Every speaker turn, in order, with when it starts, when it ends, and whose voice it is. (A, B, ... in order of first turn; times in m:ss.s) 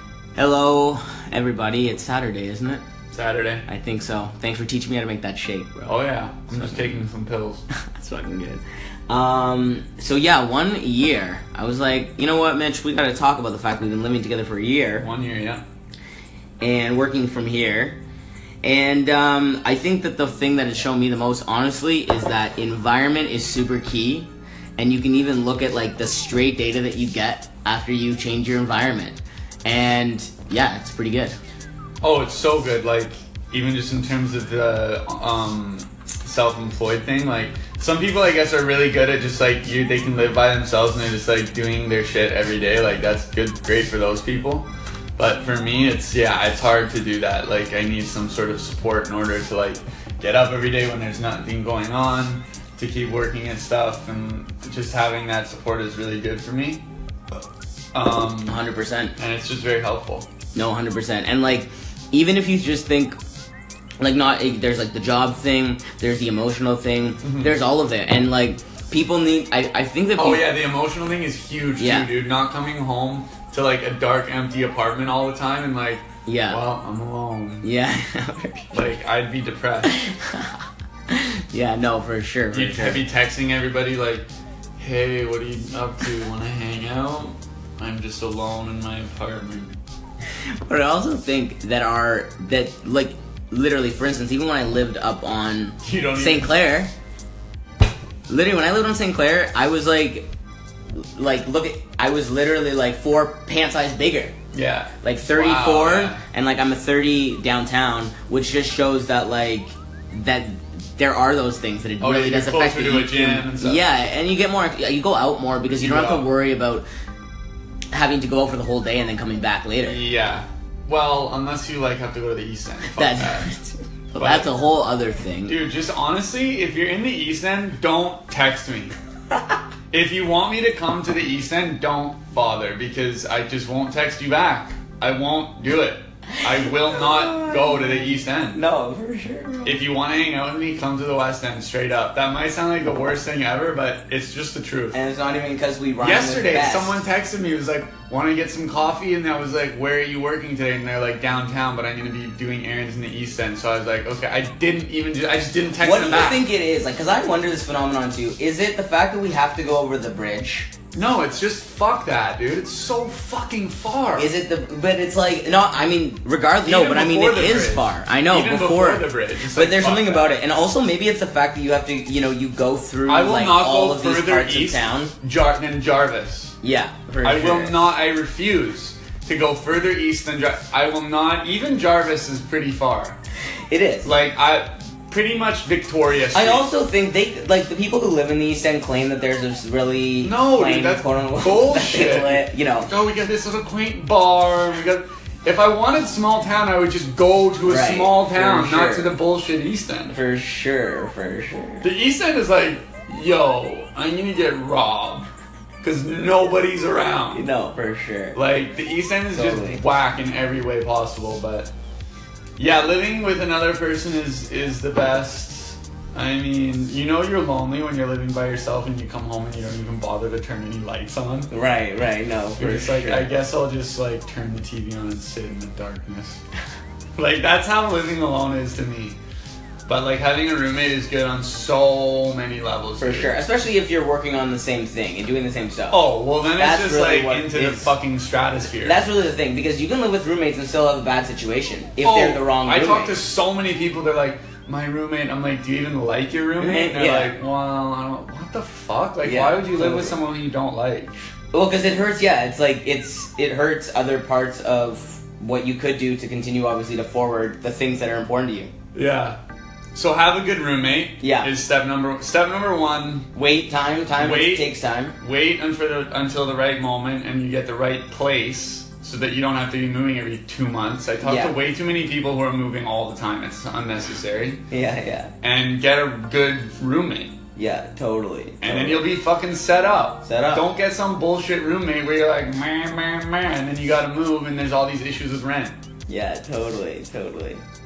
0:00.4-0:02.8 A
0:03.1-0:03.6 B
0:03.7-0:07.0 A
0:05.9-0:07.6 B
0:07.7-0:15.1 A
0:15.0-0:15.6 B
0:16.6-0:18.0 A
0:18.6-0:31.4 A
0:32.0-0:44.7 B
0:45.2-0:56.8 B
0:57.9-0:58.6 B
0:58.5-0:59.1 A
0:59.2-1:00.3 B
1:00.5-1:03.2 A
1:04.0-1:10.5 A
1:07.2-1:07.5 B
1:10.2-1:17.6 B
1:11.8-1:12.1 A
1:16.2-1:16.6 A
1:17.6-1:18.7 A
1:18.7-1:20.0 B
1:19.8-1:23.0 A
1:22.5-1:24.2 B
1:24.8-1:29.8 B
1:30.6-1:36.9 A
1:35.8-1:36.6 B
1:38.3-1:40.3 A
1:40.9-1:44.3 A
1:44.5-1:46.2 B
1:45.0-1:56.8 A
1:52.0-1:53.9 B
1:55.8-1:56.3 B
1:57.9-2:00.0 A
1:59.8-2:03.5 B
2:02.9-2:05.6 A
2:04.2-2:04.5 B
2:05.4-2:08.9 B
2:09.9-2:18.6 B
2:16.6-2:19.8 A
2:19.6-2:25.0 B
2:24.9-2:27.0 A
2:26.0-2:36.4 B
2:35.8-2:40.7 A
2:40.9-2:44.3 B
2:44.1-2:55.1 A
2:46.6-2:50.4 B
2:53.1-2:56.6 B
2:56.6-2:57.8 A
2:57.2-3:03.2 B
3:03.7-3:04.1 A
3:04.0-3:06.7 B
3:06.3-3:12.9 A
3:10.2-3:20.2 B
3:17.6-3:19.2 A
3:20.1-3:21.9 A
3:21.8-3:25.2 B
3:25.8-3:27.5 B
3:27.3-3:28.4 A
3:28.3-3:31.7 B
3:29.3-3:29.8 A
3:32.6-3:41.5 B
3:41.5-3:43.3 A
3:42.6-3:46.4 B
3:47.2-3:49.2 B
3:49.9-3:53.4 B
3:53.0-3:57.9 A
3:55.9-3:59.0 B
3:58.8-4:03.2 A
4:02.0-4:11.1 B
4:06.6-4:07.3 A
4:09.2-4:10.2 A
4:11.5-4:18.7 A
4:18.9-4:19.4 B
4:19.9-4:23.3 B
4:21.2-4:21.5 A
4:23.3-4:25.2 A
4:24.2-4:34.6 B
4:31.2-4:31.6 A
4:34.7-4:35.3 A
4:35.4-4:37.4 B
4:37.6-4:39.0 A
4:38.6-4:45.8 B
4:40.2-4:40.6 A
4:46.1-4:47.6 A